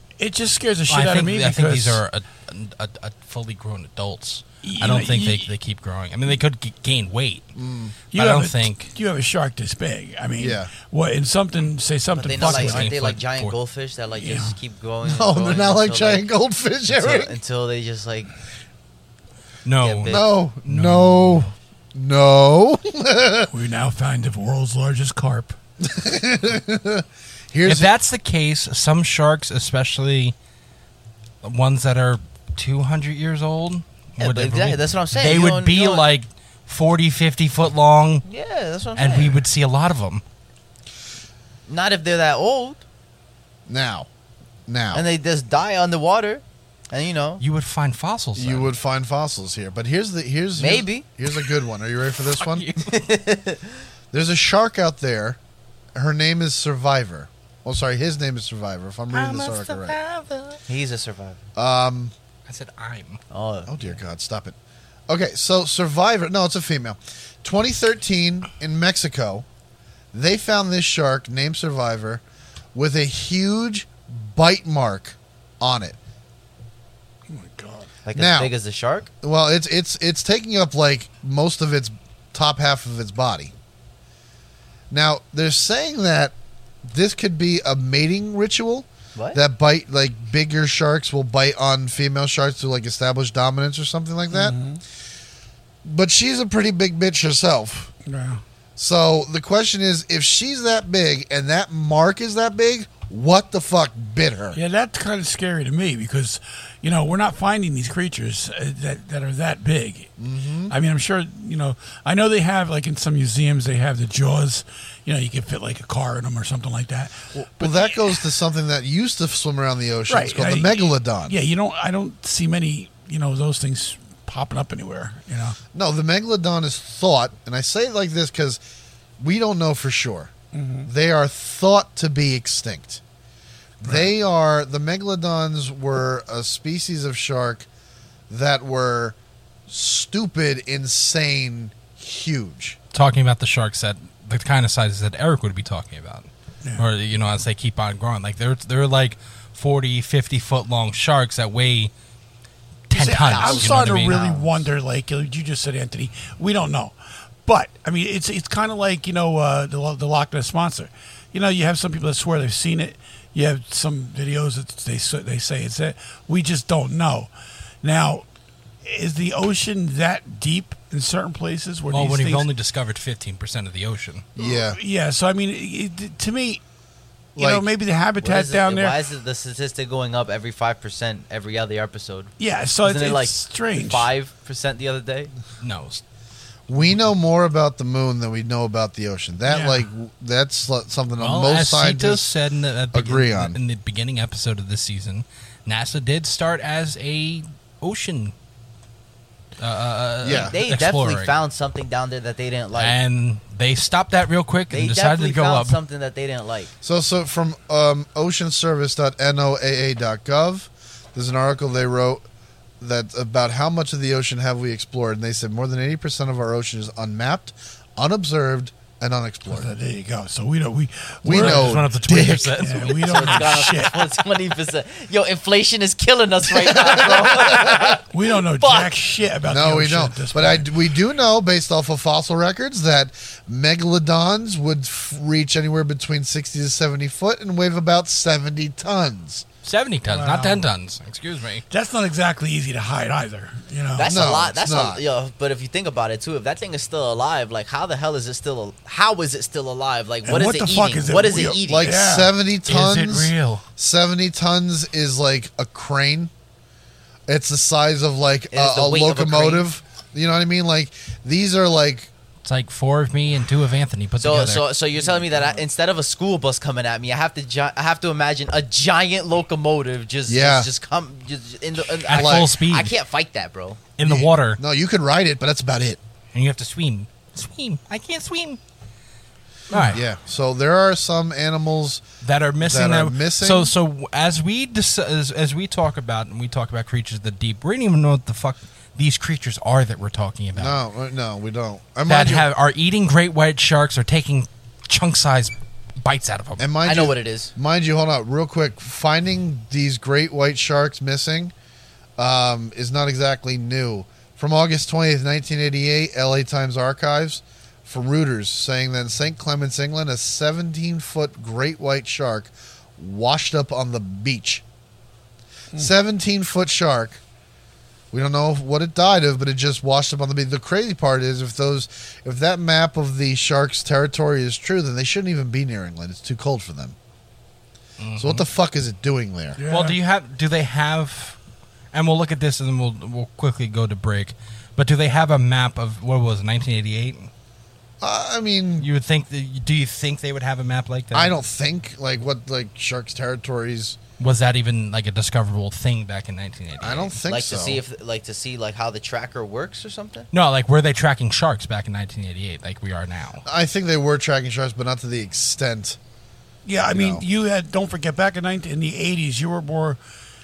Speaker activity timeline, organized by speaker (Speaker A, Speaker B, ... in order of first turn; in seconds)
Speaker A: 0.2-2.0, 4.6-5.5, 8.1-13.0, 14.2-14.5, 23.5-25.6, 77.3-77.9, 94.3-94.8, 98.0-98.4, 104.5-110.1, 110.7-118.2, 120.1-125.6, 130.5-130.9, 133.8-134.1, 152.9-168.2, 168.8-172.5, 174.4-176.6, 177.3-179.1, 182.4-184.1, 189.5-189.8, 219.5-224.1, 227.3-230.7, 240.1-240.7, 241.7-244.3, 250.2-252.3, 329.6-330.0, 356.6-360.0
Speaker B: 0.9-7.5, 8.1-8.9, 12.4-13.6, 19.6-21.5, 27.6-30.3, 31.4-38.2, 38.9-40.2, 47.4-48.7, 52.4-53.0, 59.1-60.6, 62.5-63.2, 142.9-151.9, 152.9-154.2, 171.9-174.2, 185.6-186.0, 191.2-198.3, 199.6-201.3, 202.7-205.8, 221.3-223.7, 239.6-241.6, 252.7-253.6, 262.4-264.6, 272.1-272.9, 274.0-274.6, 276.3-278.6, 279.7-280.0, 282.2-290.8, 292.1-296.7, 328.0-328.5, 329.7-331.4, 331.9-337.3, 338.8-341.3, 344.2-347.2, 350.3-353.4
Speaker C: 7.5-8.0, 10.4-10.7, 15.0-17.4, 20.1-23.5, 25.8-27.9, 43.7-44.1, 44.7-45.0, 48.3-52.7, 54.1-55.4, 55.9-60.0, 61.5-62.1, 63.7-64.5, 65.1-69.4, 70.1-72.2, 72.7-76.0, 78.1-78.5, 79.2-83.5, 84.9-94.6, 95.8-97.9, 98.8-104.6, 110.2-110.7, 117.3-121.3, 125.7-128.6, 129.2-130.3, 130.8-133.0, 133.8-137.7, 138.3-139.2, 139.7-142.8, 153.0-154.4, 174.3-174.8, 177.3-177.7, 186.7-192.3, 192.9-193.6, 200.2-200.6, 206.8-212.2, 212.8-219.8, 221.2-223.0, 226.7-228.0, 229.5-239.4, 244.0-245.0, 251.7-256.3, 257.3-262.1, 270.3-270.7, 272.1-272.5, 274.0-276.0, 279.9-282.0, 282.6-283.7, 290.5-292.5, 296.6-301.5, 302.2-314.6, 315.7-317.2, 318.1-326.9, 328.2-329.6, 338.0-338.9, 341.1-344.0, 346.8-347.8, 353.4-356.0, 356.9-357.2
Speaker D: 12.1-16.3, 16.9-18.3, 19.8-20.3, 34.2-36.0, 38.3-39.4, 41.7-42.8, 44.9-47.4, 50.6-51.0, 52.8-53.8, 60.7-61.4, 63.3-63.9, 78.0-79.1, 178.2-185.3, 200.2-203.0, 204.7-206.7, 222.9-228.9, 243.9-251.9, 258.5-259.7, 264.2-273.8, 296.8-297.5, 347.3-350.3